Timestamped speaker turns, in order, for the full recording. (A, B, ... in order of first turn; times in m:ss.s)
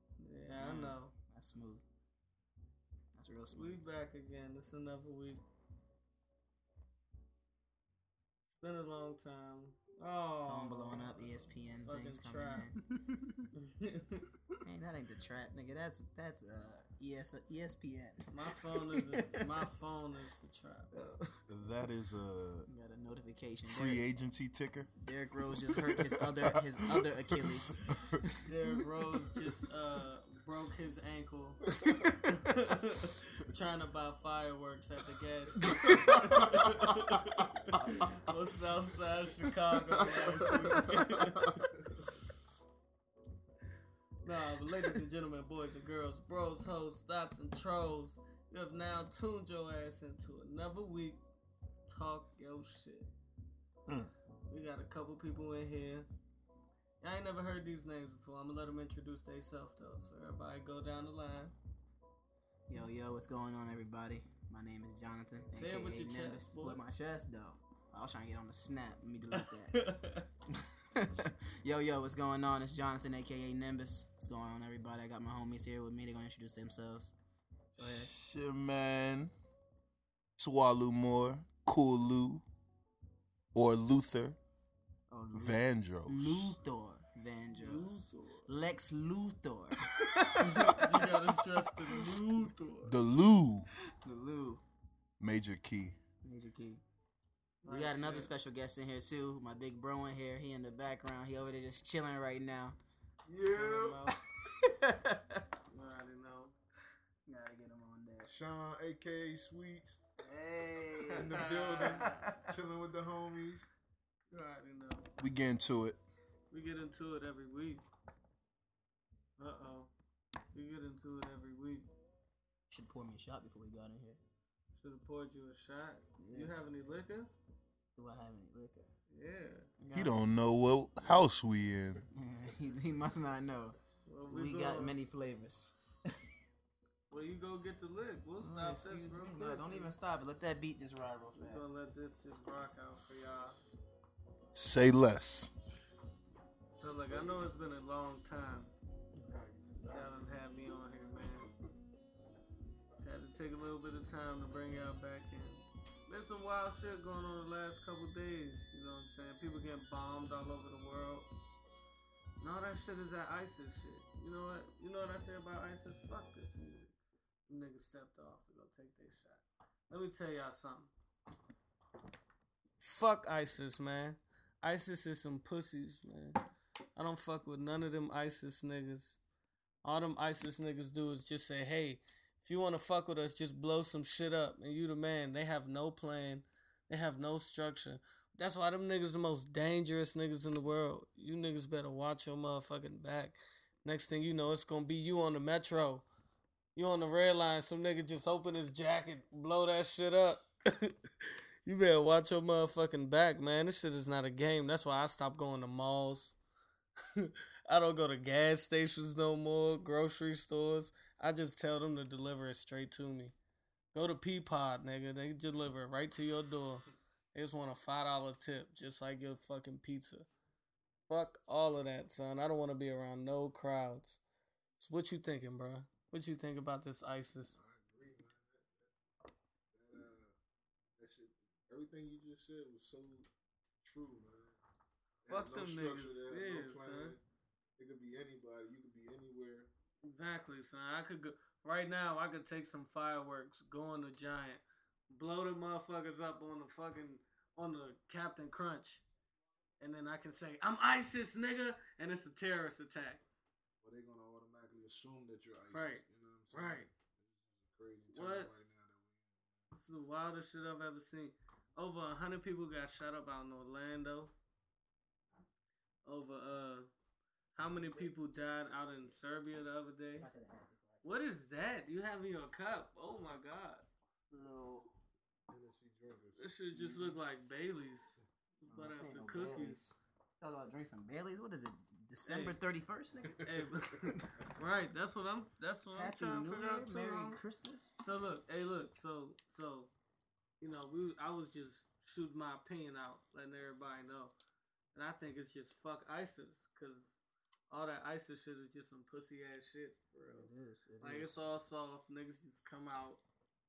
0:00.2-0:01.1 A
0:00.5-0:01.8 B
0:03.2-0:03.8 B
0:03.5-0:05.4 A
0:08.6-0:12.7 A
0:10.4-0:13.4 B
0:13.5-0:14.3 A
0:14.6-0:19.5 B
0:18.3-0:20.9 A
0:21.0-0:21.3 B
0:21.5-0:22.7 C
0:22.7-0:24.0 B
0:23.7-0:24.9 C
0:25.0-0:28.4 B
0:25.6-0:28.3 C
0:28.4-0:31.6 A
0:31.8-0:32.2 D
0:32.2-0:41.6 A
0:35.9-0:36.7 D
0:40.1-0:41.2 D
0:41.8-0:42.0 D
0:44.2-0:51.2 A
0:51.9-0:53.1 A
0:54.5-0:56.1 A
0:57.0-1:01.5 A
1:02.7-1:09.8 B
1:05.5-1:06.8 A
1:09.3-1:10.3 A
1:10.5-1:17.2 B
1:17.8-1:18.1 B
1:17.8-1:19.3 C
1:20.4-1:22.4 C
1:23.5-1:24.4 C
1:25.1-1:30.9 B
1:25.3-1:26.6 C
1:27.5-1:28.5 A
1:30.4-1:33.0 A
1:32.8-1:33.7 C
1:34.0-1:34.6 B
1:35.2-1:36.0 C
1:36.2-1:36.8 B
1:37.6-1:38.3 A
1:37.7-1:42.8 B
1:43.3-1:44.1 D
1:43.5-1:44.2 A
1:44.4-1:45.5 B
1:45.7-1:46.6 A
1:47.3-1:48.3 B
1:48.2-1:50.0 D
1:50.2-1:52.4 B
1:51.0-1:52.4 A
1:51.1-1:53.7 D
1:54.3-1:55.1 A
1:55.2-1:56.0 C
1:56.5-1:57.8 A
1:59.4-1:59.9 A
2:00.5-2:01.9 A
2:02.7-2:04.2 B
2:04.8-2:07.3 A
2:06.2-2:06.6 B
2:08.0-2:08.9 B
2:09.1-2:09.7 A
2:09.8-2:10.2 B
2:09.9-2:12.0 C
2:12.1-2:13.8 B
2:14.1-2:15.0 A
2:14.3-2:16.1 B
2:17.1-2:19.9 A
2:18.4-2:21.7 B
2:21.3-2:23.6 A
2:24.5-2:25.5 C
2:26.7-2:28.7 A
2:29.2-2:30.3 D
2:29.8-2:31.5 A
2:33.0-2:41.3 A
2:42.4-2:46.9 A
2:47.5-2:50.9 A
2:52.8-2:56.4 A
2:57.0-2:59.2 A
2:59.8-3:16.1 A
3:16.8-3:26.4 A
3:27.2-3:33.3 A
3:33.9-3:40.3 A
3:41.1-3:44.2 A
3:44.8-3:47.6 A
3:47.5-3:48.8 D
3:49.7-3:50.3 D
3:51.0-3:53.3 D
3:53.8-3:54.6 D
3:55.2-3:57.2 D
3:55.3-3:57.2 A
3:57.8-3:59.7 D
4:00.0-4:09.0 A
4:09.8-4:13.2 A
4:13.8-4:19.2 D
4:15.7-4:16.9 A
4:18.1-4:18.5 A
4:19.7-4:24.3 A
4:26.1-4:26.9 A
4:27.6-4:30.3 A
4:27.6-4:28.1 D
4:30.2-4:31.0 B
4:31.0-4:33.8 A
4:34.3-4:34.9 B
4:35.5-4:36.5 D
4:36.4-4:39.8 A
4:36.7-4:37.2 B
4:38.7-4:43.5 B
4:42.2-4:42.6 A
4:43.4-4:47.4 A
4:45.9-4:48.0 B
4:48.0-4:49.9 A
4:50.6-4:54.3 A
4:55.0-4:57.1 A
4:57.7-5:00.5 A
5:00.3-5:01.4 B
5:01.0-5:03.2 A